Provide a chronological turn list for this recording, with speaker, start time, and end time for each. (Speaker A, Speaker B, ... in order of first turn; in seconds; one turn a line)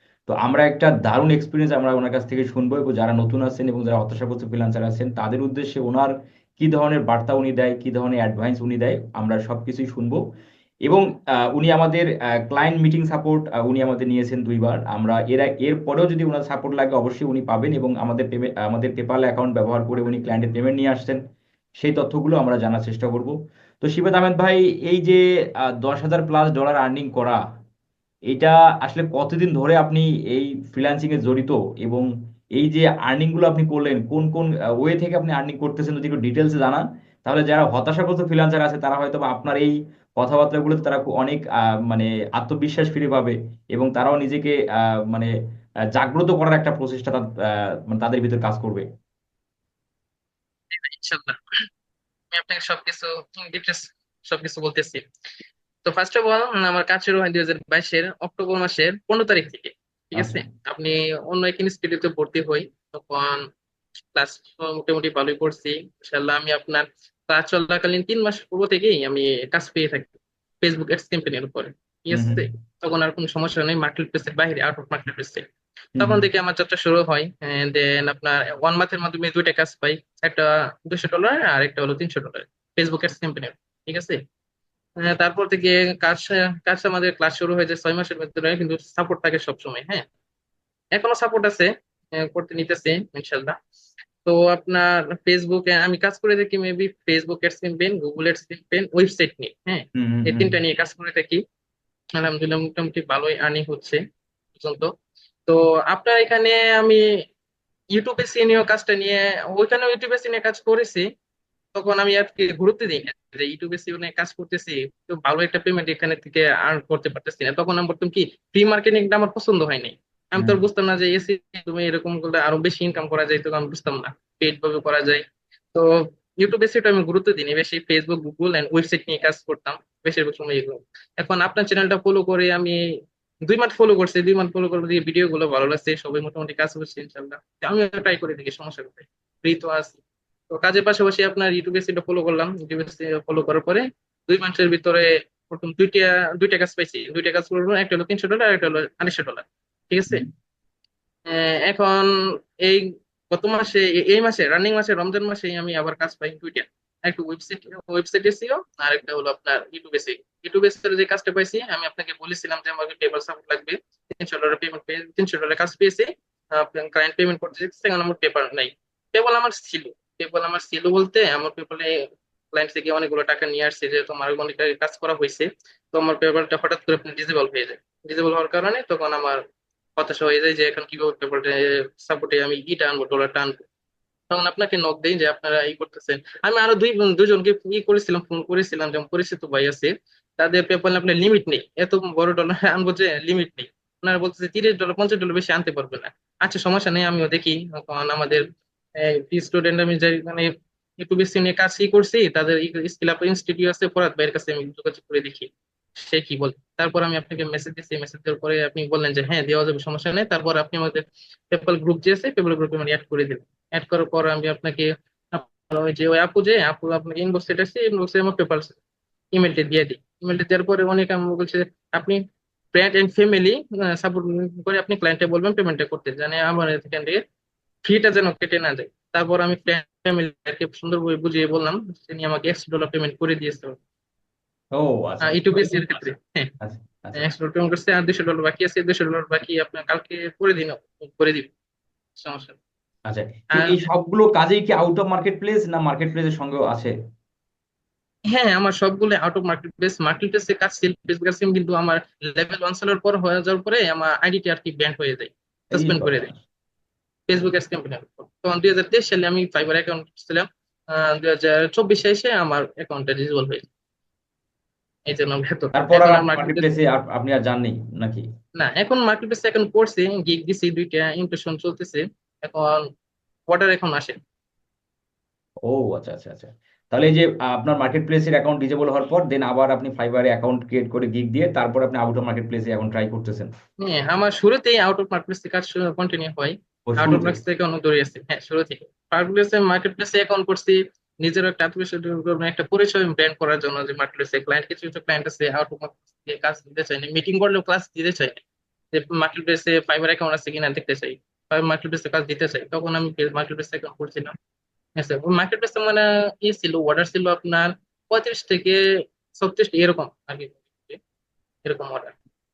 Speaker A: 0.3-10.2
Speaker A: 10.9-21.2
Speaker A: 21.8-25.2
Speaker A: 25.8-27.4
Speaker A: 28.3-44.6
Speaker A: 46.0-47.3
Speaker A: 47.9-48.9
Speaker B: 50.7-51.4
Speaker B: 52.3-55.0
Speaker B: 55.9-63.4
Speaker A: 60.1-60.4
Speaker B: 64.1-75.4
Speaker A: 72.1-72.4
Speaker B: 76.0-84.2
Speaker B: 85.0-90.0
Speaker B: 91.0-93.5
Speaker B: 94.2-101.4
Speaker A: 100.0-100.5
Speaker B: 102.2-104.0
Speaker B: 104.6-104.9
Speaker B: 105.5-107.0
Speaker B: 107.9-111.1
Speaker B: 111.8-125.2
Speaker B: 126.4-132.8
Speaker B: 133.5-140.0
Speaker B: 140.5-150.2
Speaker B: 151.3-152.1
Speaker B: 152.6-171.9
Speaker B: 172.5-179.4
Speaker B: 180.0-183.7
Speaker B: 184.3-198.4
Speaker B: 199.0-205.5
Speaker B: 206.0-218.8
Speaker B: 219.3-222.2
Speaker B: 222.7-227.2
Speaker B: 227.8-233.8
Speaker A: 234.7-236.1
Speaker B: 235.2-236.5
Speaker A: 236.6-237.2
Speaker B: 237.2-241.5
Speaker B: 242.2-242.6
Speaker A: 243.1-246.9
Speaker B: 248.3-256.3
Speaker A: 255.7-256.4
Speaker B: 257.3-263.7
Speaker B: 265.1-266.7
Speaker A: 265.7-268.2
Speaker B: 268.6-272.8
Speaker B: 273.5-274.2
Speaker A: 275.7-283.5
Speaker B: 283.8-298.4
Speaker A: 286.9-287.4
Speaker B: 298.9-304.3
Speaker B: 305.0-308.8
Speaker B: 309.4-311.0
Speaker B: 311.6-312.1